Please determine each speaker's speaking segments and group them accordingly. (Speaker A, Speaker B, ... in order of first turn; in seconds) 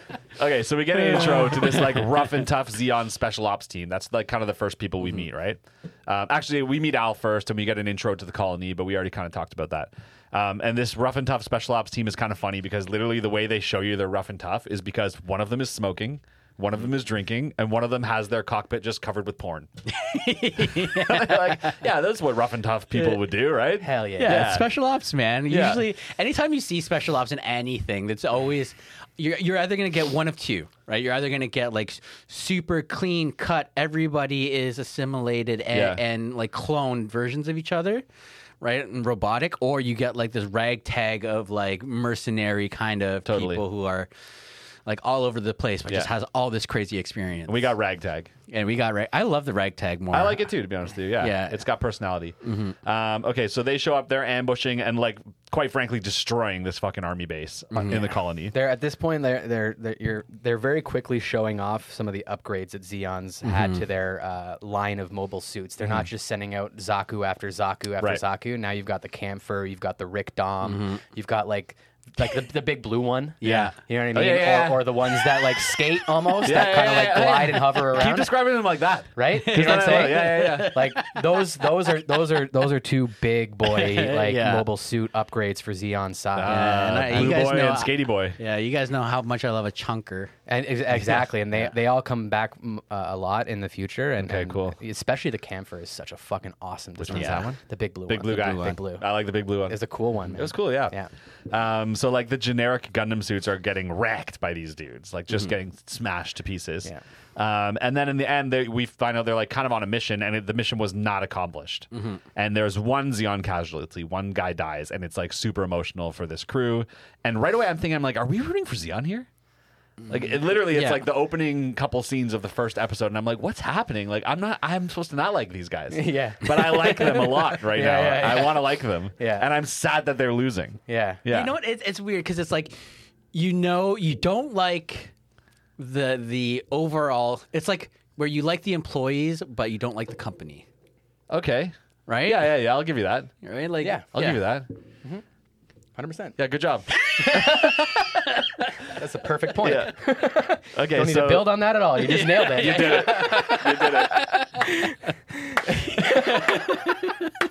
Speaker A: 0.4-19.7, 20.6-24.7, 25.5-25.9, 35.7-36.0, 43.2-43.6, 47.5-48.3, 50.1-58.5, 73.4-75.1, 76.4-80.8, 86.3-88.4, 94.2-94.8, 97.0-99.8, 100.3-101.0, 101.5-119.3, 120.1-131.6, 141.3-141.7, 142.2-143.3, 144.1-144.7, 146.4-148.1, 149.6-150.0, 150.7-151.7, 152.4-154.3
Speaker B: 0.9-2.3, 19.9-21.8, 24.2-38.0, 38.6-44.1, 44.9-47.7, 48.5-50.5, 51.2-51.6, 52.4-52.8, 57.7-58.1, 63.4-63.8, 70.6-71.0, 73.4-73.8, 79.3-81.9, 83.6-84.7, 86.5-90.3, 91.0-91.7, 97.1-97.5, 111.9-112.2, 120.0-121.0, 131.3-132.8, 133.3-135.1, 135.8-140.7, 142.1-142.5, 143.4-144.4, 147.0-148.4, 152.0-155.0, 155.7-157.3
Speaker C: 23.8-24.4, 58.5-78.5, 79.2-87.4, 90.5-101.1, 125.9-129.5, 130.9-131.2, 146.0-146.4, 148.8-156.8